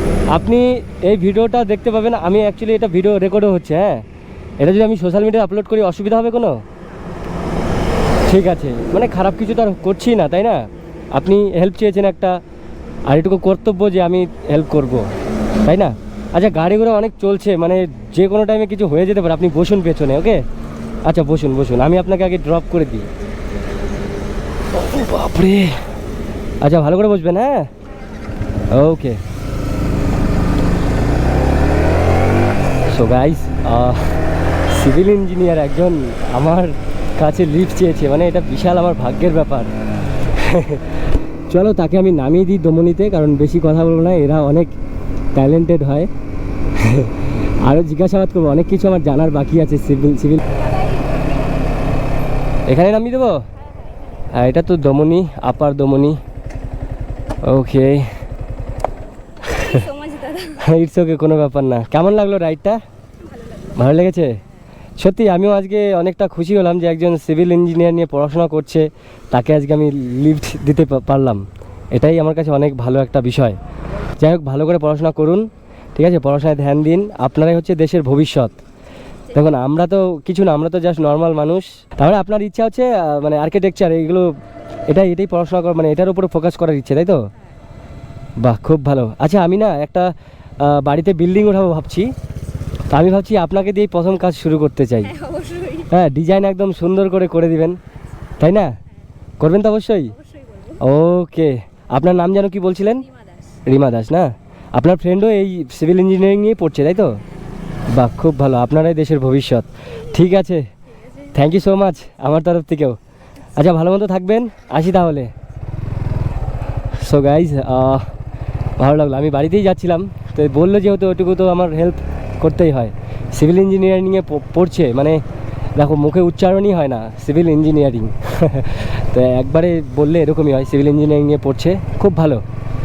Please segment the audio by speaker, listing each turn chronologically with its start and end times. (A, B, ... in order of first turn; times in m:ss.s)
0:00.3-0:04.0 A
0:04.6-0:06.6 A
0:08.3-0:12.4 A
0:13.1-0:15.1 A
0:15.6-0:20.4 A
0:21.0-0:23.1 A
0:24.7-0:25.8 A
0:26.6-0:27.7 A
0:28.7-0:29.2 A
0:32.9-0:34.2 A
0:34.7-0:39.7 A
0:40.4-0:40.8 A
0:41.5-0:44.7 A
0:45.3-0:46.1 A
0:46.8-0:50.4 A
0:50.5-0:51.7 B
0:52.7-0:53.4 A
0:53.6-0:54.3 B
0:54.3-0:56.2 A
0:57.4-0:58.1 A
0:59.4-1:00.7 B
1:00.6-1:02.8 A
1:03.2-1:04.0 B
1:03.8-1:04.4 A
1:05.0-1:13.6 A
1:14.2-1:18.6 A
1:19.3-1:19.7 B
1:19.3-1:24.3 A
1:24.9-1:27.2 A
1:28.4-1:32.1 A
1:32.9-1:35.1 A
1:35.0-1:36.0 B
1:35.9-1:37.8 A
1:38.4-1:38.8 A
1:39.4-1:40.1 A
1:40.0-1:40.8 B
1:40.8-1:43.0 A
1:42.9-1:43.6 B
1:43.6-1:47.2 A
1:47.9-1:50.7 A
1:49.9-1:50.4 B
1:50.9-1:51.6 B
1:51.3-1:53.0 A
1:53.6-1:55.3 A
1:57.0-1:58.1 A
1:58.8-2:05.2 A
2:05.8-2:12.4 A